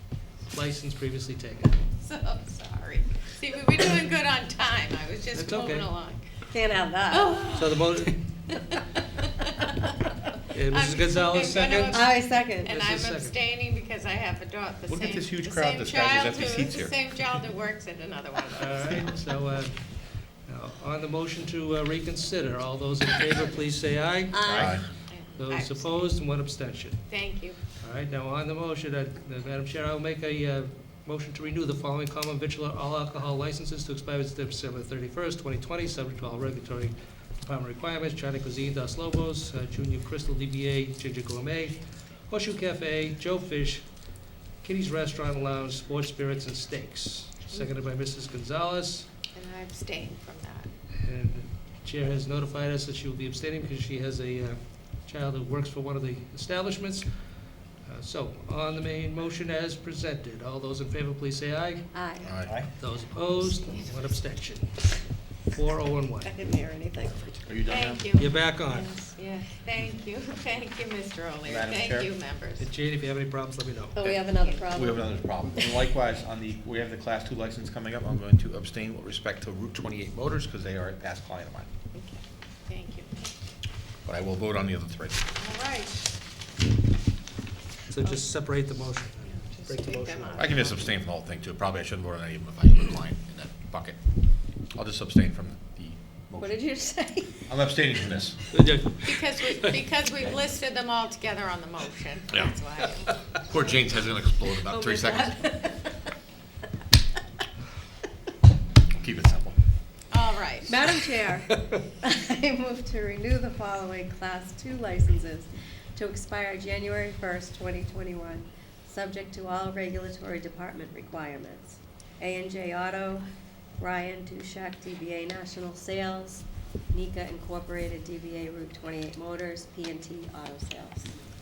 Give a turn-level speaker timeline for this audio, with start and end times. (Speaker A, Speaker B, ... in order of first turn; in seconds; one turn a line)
Speaker A: 0.5-1.7
Speaker B: 1.9-6.2
Speaker A: 5.3-5.9
Speaker C: 6.5-7.5
Speaker B: 7.1-7.9
Speaker A: 7.5-8.4
Speaker B: 8.5-10.1
Speaker A: 10.5-12.0
Speaker B: 10.7-19.1
Speaker C: 11.9-12.7
Speaker A: 12.7-13.3
Speaker D: 14.9-17.0
Speaker A: 18.6-24.8
Speaker C: 24.3-24.8
Speaker D: 24.4-24.8
Speaker B: 25.1-26.0
Speaker A: 25.4-27.1
Speaker B: 27.1-27.6
Speaker A: 27.8-49.1
Speaker B: 49.3-50.7
Speaker A: 51.0-62.0
Speaker C: 61.9-64.0
Speaker D: 62.2-62.7
Speaker A: 62.5-66.3
Speaker C: 66.2-67.4
Speaker D: 67.4-68.2
Speaker B: 67.7-72.7
Speaker A: 68.1-68.9
Speaker D: 71.5-72.1
Speaker A: 72.6-74.0
Speaker C: 73.9-75.8
Speaker D: 74.7-81.7
Speaker B: 81.9-83.3
Speaker D: 84.0-85.3
Speaker B: 85.4-86.1
Speaker A: 87.9-90.5
Speaker B: 89.4-90.9
Speaker D: 90.3-96.6
Speaker C: 96.4-97.5
Speaker D: 97.5-98.4
Speaker A: 98.5-99.8
Speaker B: 99.0-103.1
Speaker D: 103.4-105.4
Speaker C: 104.6-106.0
Speaker D: 108.9-109.6
Speaker B: 110.1-110.8
Speaker C: 110.7-123.3
Speaker C: 123.8-131.1